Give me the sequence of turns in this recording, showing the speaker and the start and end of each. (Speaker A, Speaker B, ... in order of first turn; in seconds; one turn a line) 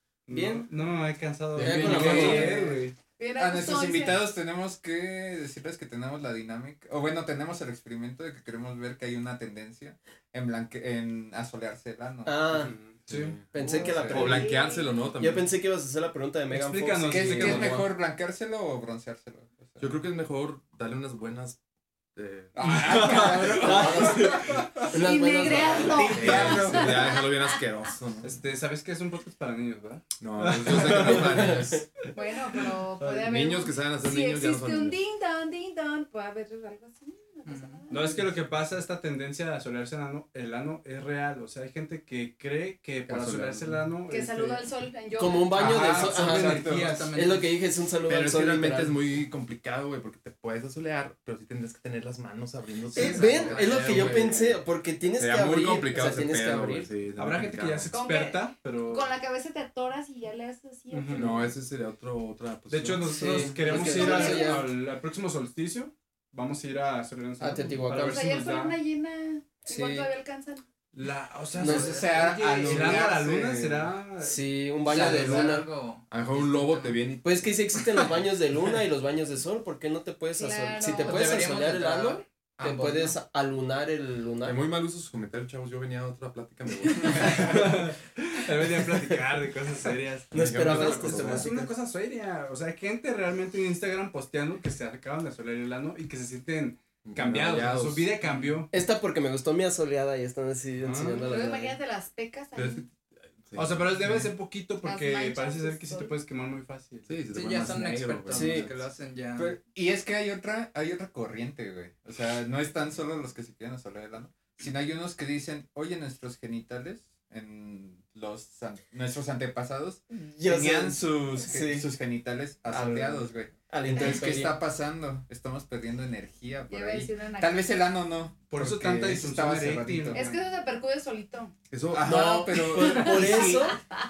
Speaker A: 0.3-3.0
Speaker B: 0.3-0.7
Speaker C: 1.6-2.7
Speaker B: 1.6-2.8
Speaker D: 2.0-2.6
Speaker E: 3.2-4.2
Speaker D: 3.4-12.4
Speaker B: 12.2-12.7
Speaker A: 12.5-13.5
Speaker C: 13.1-15.5
Speaker B: 13.5-14.6
Speaker D: 13.6-14.4
Speaker E: 14.1-15.1
Speaker B: 15.2-17.9
Speaker A: 16.5-17.9
Speaker D: 17.1-20.0
Speaker C: 17.4-17.8
Speaker C: 19.8-21.6
Speaker C: 22.1-23.2
Speaker D: 22.6-24.9
Speaker A: 22.6-24.9
Speaker B: 23.5-26.6
Speaker E: 24.9-27.6
Speaker D: 25.7-27.2
Speaker C: 26.1-28.4
Speaker A: 28.2-31.7
Speaker C: 30.2-31.8
Speaker B: 30.9-31.8
Speaker E: 32.1-38.4
Speaker C: 33.2-35.0
Speaker F: 37.5-37.9
Speaker A: 37.9-44.6
Speaker C: 43.1-43.9
Speaker E: 44.1-45.8
Speaker B: 45.1-49.0
Speaker D: 45.5-47.1
Speaker A: 45.8-46.6
Speaker F: 45.9-47.6
Speaker C: 48.1-57.9
Speaker B: 52.9-56.9
Speaker A: 53.2-54.1
Speaker A: 57.2-59.1
Speaker E: 57.9-61.5
Speaker A: 60.9-61.5
Speaker C: 61.1-63.4
Speaker A: 62.7-68.8
Speaker B: 63.0-64.7
Speaker E: 63.6-64.6
Speaker B: 67.4-68.3
Speaker E: 68.0-70.6
Speaker B: 69.7-70.1
Speaker A: 70.9-74.4
Speaker B: 71.6-72.0
Speaker D: 71.6-73.9
Speaker F: 71.7-73.2
Speaker B: 74.2-75.7
Speaker F: 74.8-77.1
Speaker A: 75.0-75.4
Speaker C: 76.1-77.3
Speaker B: 77.2-84.6
Speaker E: 80.4-81.5
Speaker F: 81.0-83.2
Speaker C: 84.4-87.7
Speaker A: 87.0-98.7
Speaker B: 90.3-91.7
Speaker C: 90.3-91.6
Speaker C: 97.0-98.3
Speaker B: 98.7-101.8
Speaker A: 100.8-101.2
Speaker E: 101.2-102.9
Speaker C: 102.5-104.3
Speaker A: 103.5-107.2
Speaker E: 104.8-106.1
Speaker C: 107.1-108.7
Speaker F: 107.3-109.6
Speaker B: 108.3-108.7
Speaker D: 109.4-130.4
Speaker B: 120.1-121.9
Speaker B: 122.7-124.6
Speaker E: 126.7-127.6
Speaker A: 128.5-130.4
Speaker E: 130.1-131.5
Speaker C: 131.7-132.3
Speaker D: 131.9-133.7
Speaker B: 132.0-133.8
Speaker E: 132.8-133.8